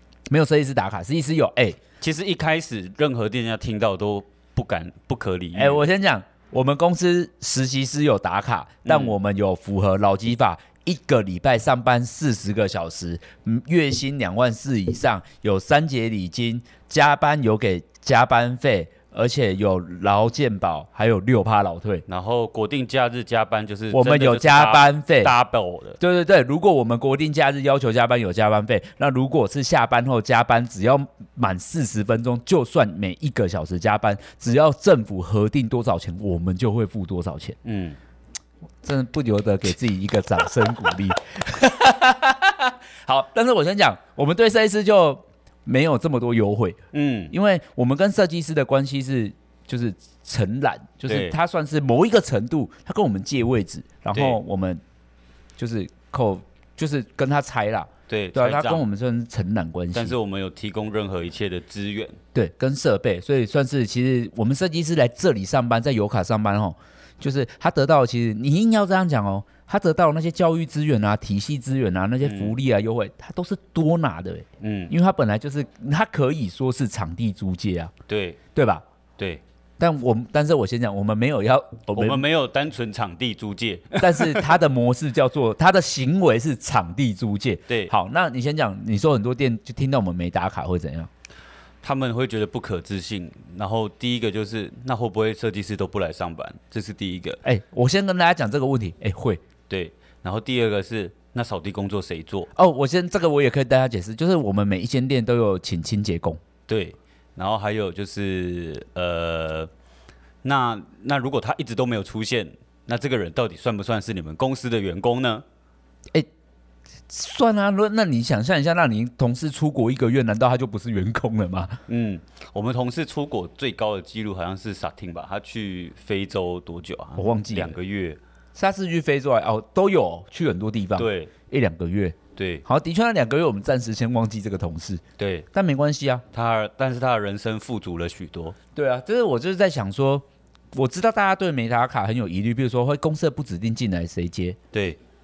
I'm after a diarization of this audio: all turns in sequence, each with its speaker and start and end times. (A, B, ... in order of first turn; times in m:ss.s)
0:00.3-0:01.8 A
0:02.0-0:05.8 B
0:05.6-0:22.0 A
0:08.8-0:09.2 B
0:22.1-0:26.0 B
0:23.9-0:25.3 A
0:26.0-0:37.6 A
0:37.6-0:38.0 B
0:38.8-0:46.8 A
0:46.9-0:47.3 B
0:47.3-0:54.8 A
0:51.1-0:51.4 B
0:54.1-0:54.4 B
0:55.6-1:00.2 A
0:58.1-0:58.8 B
0:59.9-1:02.2 B
1:02.3-1:17.9 A
1:12.2-1:12.6 B
1:14.6-1:14.9 B
1:18.1-1:18.4 B
1:18.6-1:18.8 A
1:19.2-1:19.4 B
1:19.8-1:22.2 A
1:21.9-1:24.5 B
1:24.0-1:31.1 A
1:31.8-1:37.4 B
1:37.4-1:39.4 A
1:39.7-1:42.5 B
1:42.5-1:46.4 A
1:46.7-1:49.7 B
1:50.4-1:55.4 B
1:57.1-2:01.8 A
2:01.9-2:08.2 B
2:07.2-2:07.8 A
2:08.6-2:16.2 A
2:11.0-2:11.3 B
2:12.4-2:12.6 B
2:15.2-2:15.5 B
2:16.3-2:18.6 B
2:18.8-2:24.6 A
2:24.7-2:25.0 B